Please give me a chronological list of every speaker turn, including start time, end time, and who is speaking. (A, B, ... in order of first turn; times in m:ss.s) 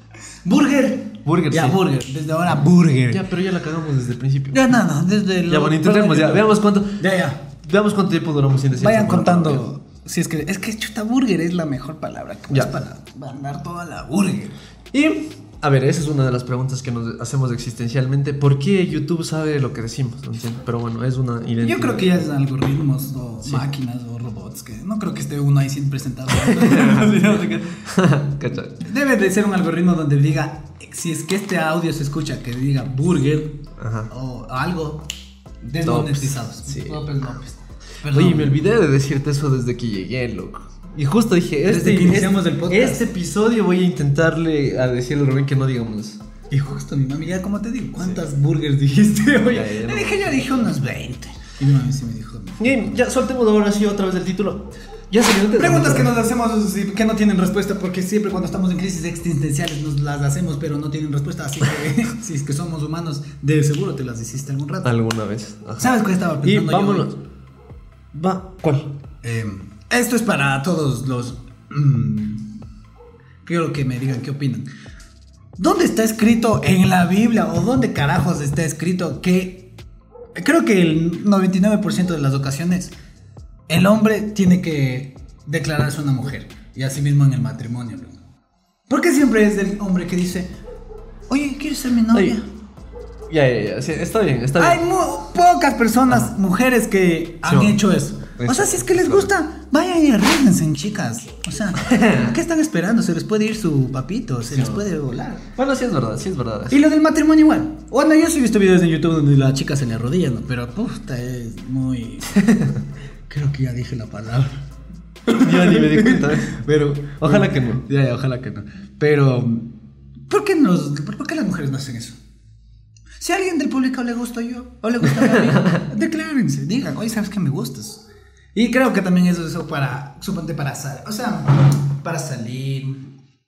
0:00.4-0:03.2 A
0:01.2-0:02.0 B
0:03.1-0:04.8 B
0:04.5-0:07.4 A
0:05.5-0:09.6 B
0:08.8-0:14.6 A
0:14.9-0:22.3 B
0:21.6-0:27.8 A
0:26.3-0:28.8 B
0:28.8-0:35.0 A
0:33.8-0:34.1 B
0:35.6-0:38.6 A
0:35.8-0:37.2 B
0:38.1-0:46.2 B
0:41.6-0:43.0 A
0:46.5-0:53.0 A
0:49.5-0:50.4 B
0:52.6-0:56.1 B
0:55.6-1:04.9 A
1:04.8-1:07.2 B
1:05.8-1:07.1 A
1:08.1-1:08.9 B
1:09.2-1:12.5 A
1:13.4-1:14.7 A
1:15.6-1:19.7 A
1:20.3-1:23.0 A
1:23.7-1:28.2 A
1:28.9-1:30.5 A
1:31.3-1:32.4 A
1:33.3-1:34.8 B
1:34.6-1:45.4 A
1:37.4-1:37.8 B
1:38.4-1:39.3 B
1:41.8-1:42.4 B
1:44.5-1:44.8 B
1:45.6-1:46.8 B
1:46.7-1:52.4 A
1:52.4-1:52.8 B
1:53.3-1:54.5 A
1:55.3-1:57.8 B
1:55.3-1:59.7 A
2:00.3-2:02.2 A
2:03.2-2:08.0 A
2:05.1-2:05.8 B
2:08.5-2:13.1 A